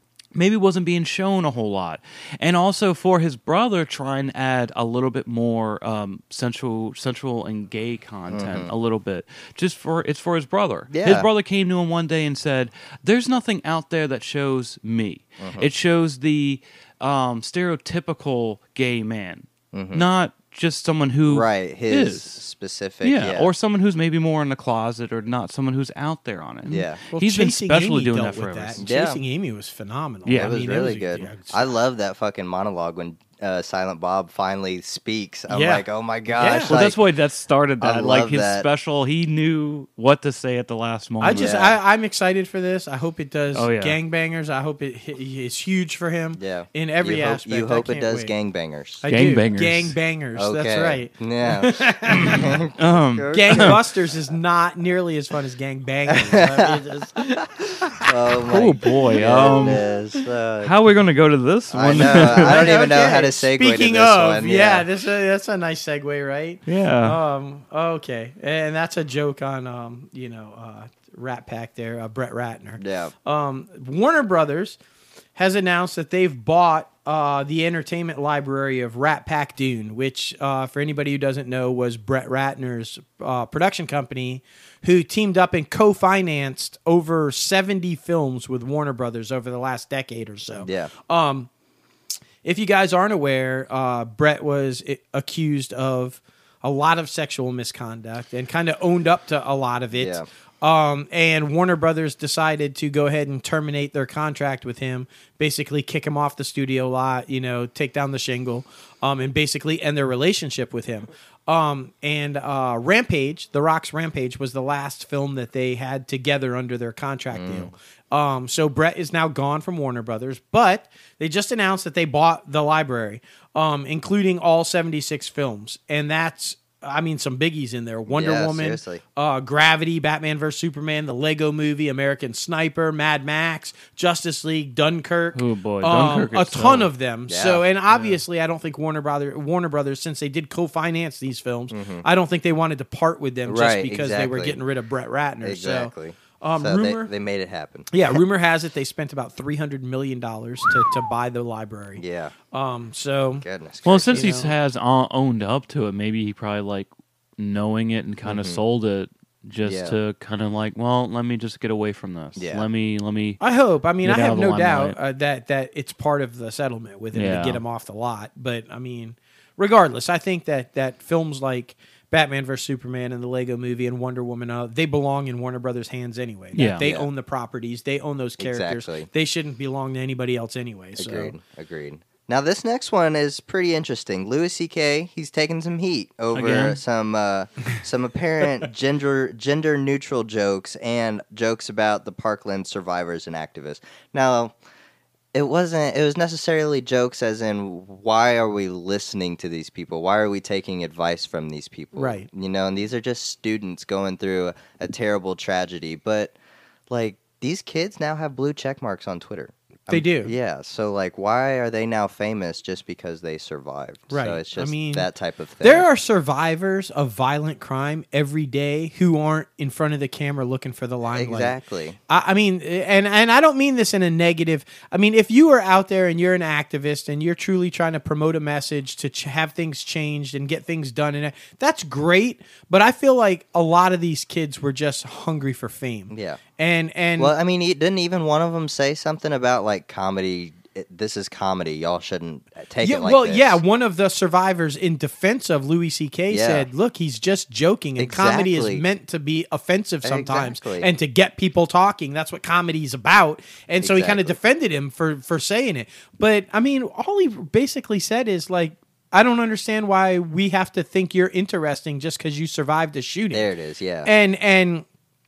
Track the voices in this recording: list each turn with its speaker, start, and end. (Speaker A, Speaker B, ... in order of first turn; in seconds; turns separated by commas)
Speaker A: 0.3-22.4, Speaker B: 8.3-8.7, Speaker B: 10.9-11.3, Speaker B: 15.4-15.7, Speaker B: 19.7-20.1, Speaker B: 21.3-23.5, Speaker A: 23.0-28.8, Speaker B: 26.7-27.0, Speaker C: 27.1-31.7, Speaker B: 28.8-29.2, Speaker A: 30.2-30.5, Speaker B: 30.3-37.0, Speaker C: 35.5-36.8, Speaker A: 36.7-41.5, Speaker B: 37.8-38.7, Speaker C: 41.2-48.3, Speaker B: 41.3-41.8, Speaker A: 43.5-44.0, Speaker B: 46.4-49.0, Speaker C: 49.0-52.5, Speaker A: 49.1-49.9, Speaker B: 50.4-53.8, Speaker A: 52.1-53.8, Speaker C: 53.3-58.1, Speaker B: 56.1-56.8, Speaker B: 58.0-60.7, Speaker A: 58.4-59.8, Speaker C: 59.2-59.8, Speaker A: 60.6-62.7, Speaker B: 61.7-64.8, Speaker C: 62.0-74.8, Speaker A: 66.7-67.2, Speaker B: 72.8-73.1, Speaker C: 75.3-91.5, Speaker B: 90.6-90.9, Speaker C: 92.4-147.1, Speaker B: 99.9-100.2, Speaker B: 117.3-117.7, Speaker B: 128.1-129.0, Speaker A: 135.3-136.9, Speaker B: 137.3-137.6, Speaker A: 137.9-138.2, Speaker B: 141.7-142.0, Speaker B: 143.4-144.6, Speaker B: 145.4-147.9, Speaker C: 147.9-153.4, Speaker B: 152.0-152.3, Speaker B: 153.4-154.3, Speaker A: 153.8-163.4, Speaker C: 154.1-154.5, Speaker B: 158.2-158.6, Speaker B: 159.6-159.9, Speaker B: 162.3-162.6, Speaker C: 163.4-181.3, Speaker A: 164.0-164.9, Speaker A: 167.1-167.6, Speaker A: 176.5-176.8, Speaker B: 176.8-177.1, Speaker B: 178.4-179.1, Speaker B: 180.9-194.5, Speaker A: 186.3-186.8, Speaker B: 195.3-206.3, Speaker C: 201.9-202.3, Speaker B: 206.9-215.8, Speaker C: 209.9-210.3, Speaker C: 214.1-215.1, Speaker C: 215.6-221.6, Speaker B: 221.1-222.0, Speaker C: 222.1-237.3, Speaker B: 236.1-236.4, Speaker B: 237.2-243.6, Speaker C: 242.8-263.5, Speaker B: 246.3-246.7, Speaker B: 248.0-248.8, Speaker B: 250.0-250.9, Speaker B: 253.8-254.3, Speaker B: 263.3-264.1, Speaker C: 264.0-264.8